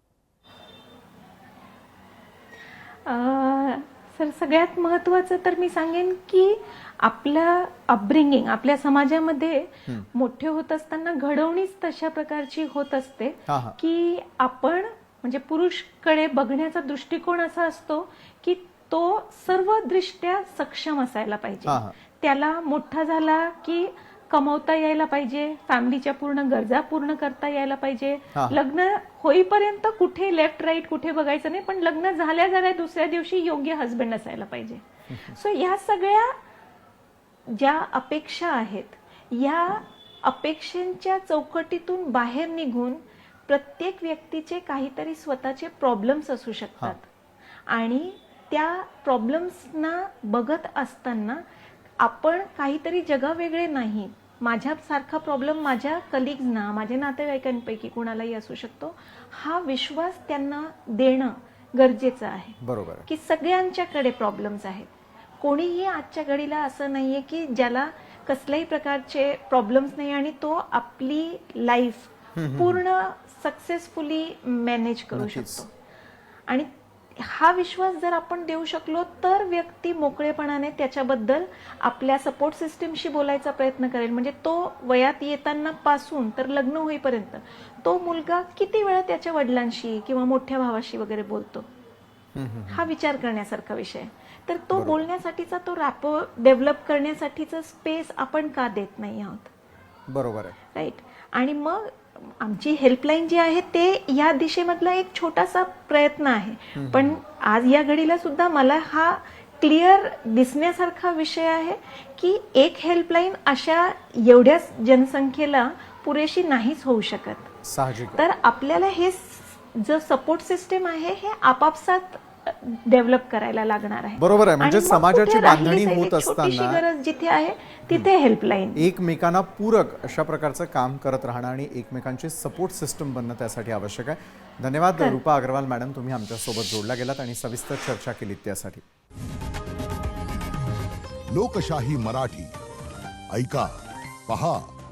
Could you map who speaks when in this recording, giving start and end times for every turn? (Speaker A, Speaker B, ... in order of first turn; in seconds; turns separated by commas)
Speaker A: 3.0-36.3, Speaker B: 13.5-13.8, Speaker B: 21.6-21.9, Speaker B: 28.3-28.6, Speaker B: 35.1-35.4, Speaker A: 37.5-47.1, Speaker A: 47.7-51.4, Speaker A: 52.0-75.7, Speaker B: 62.6-63.1, Speaker B: 72.3-72.8, Speaker B: 75.1-75.6, Speaker A: 76.5-91.7, Speaker B: 92.3-92.9, Speaker A: 92.7-99.5, Speaker B: 94.7-95.0, Speaker B: 100.1-100.6, Speaker A: 100.7-117.6, Speaker B: 106.8-107.2, Speaker B: 117.6-118.2, Speaker A: 118.1-128.9, Speaker B: 124.2-126.8, Speaker B: 128.8-138.8, Speaker C: 141.3-142.6, Speaker C: 143.3-143.7, Speaker C: 144.3-144.7